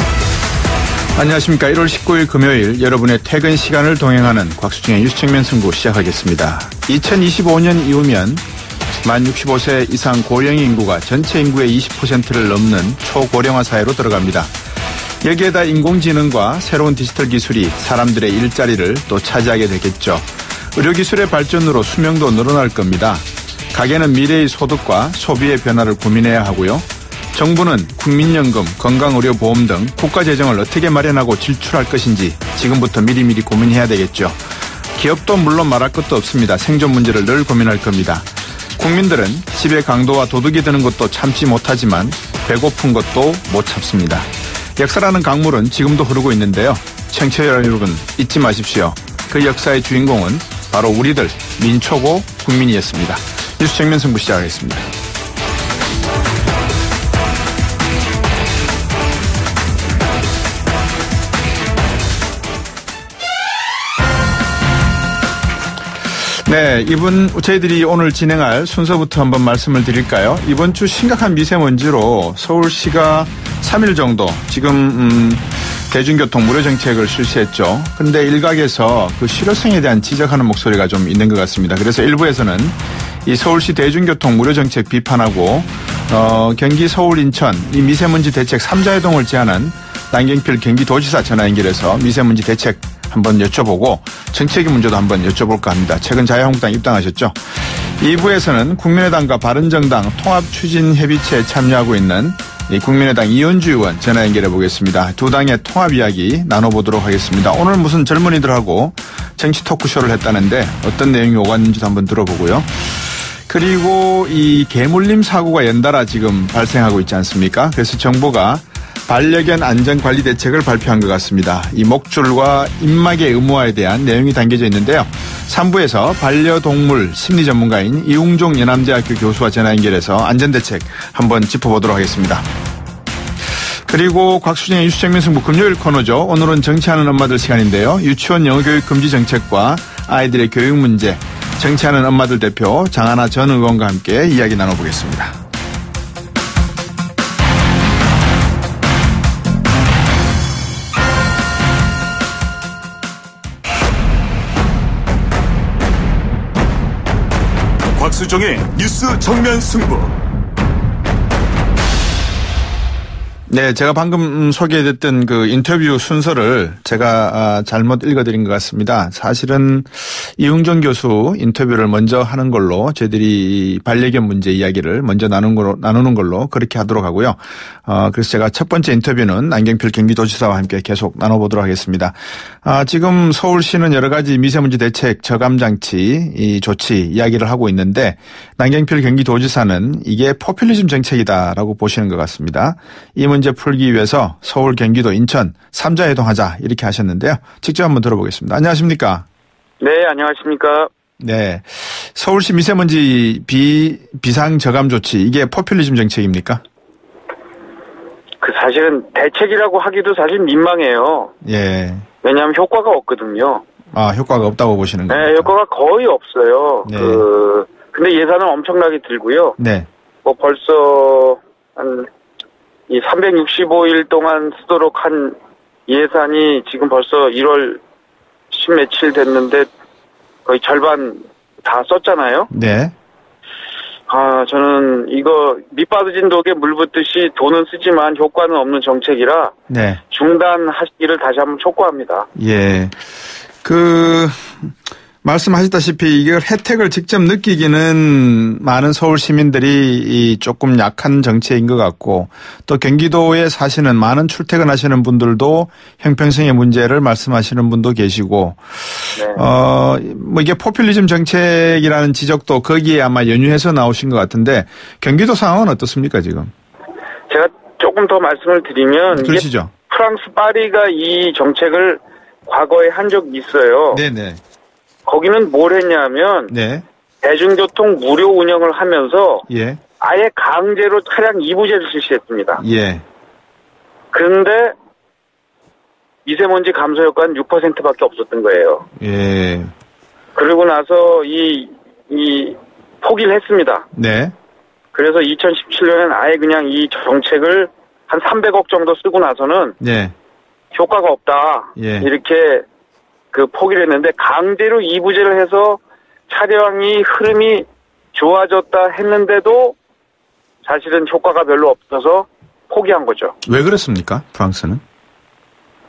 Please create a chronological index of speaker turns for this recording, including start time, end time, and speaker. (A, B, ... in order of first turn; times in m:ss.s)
0:01.2-0:08.4 A
0:09.0-0:14.5 A
0:15.2-0:34.4 A
0:34.9-0:54.9 A
1:06.3-1:52.7 A
1:53.5-2:12.4 A
2:13.9-2:25.4 A
2:38.0-2:40.2 B
2:43.5-3:19.2 A
3:19.8-3:20.9 C
3:21.2-3:26.6 A
3:28.4-3:31.3 C
3:31.4-3:32.1 A
3:32.2-3:33.6 C
3:33.9-3:35.5 A
3:35.1-3:39.6 C
3:36.9-3:37.2 A
3:39.6-3:39.9 A
3:40.2-3:42.1 C
3:42.9-3:47.8 C
3:48.5-3:49.7 C
3:50.4-3:52.5 C
3:52.5-3:52.9 A
3:54.1-3:59.5 C
3:59.7-4:00.0 A
4:00.1-4:02.3 C
4:02.4-4:03.0 A
4:03.6-4:04.7 A
4:05.2-4:26.5 A
4:19.2-4:19.4 C
4:27.3-4:34.0 C
4:29.1-4:29.7 A
4:33.9-4:34.4 A
4:35.1-4:36.5 C
4:36.5-4:36.8 A
4:37.2-4:39.5 C
4:39.5-4:39.8 A
4:40.0-4:42.6 C
4:42.6-4:43.0 A
4:44.1-4:44.7 C
4:46.2-4:48.9 C
4:49.0-4:49.7 A
4:50.4-4:53.8 C
4:53.9-4:54.3 A
4:54.9-4:59.8 C
4:59.8-5:00.1 A
5:00.7-5:02.6 C
5:01.8-5:02.1 A
5:03.3-5:09.8 C
5:10.6-5:13.4 C
5:13.5-5:14.8 A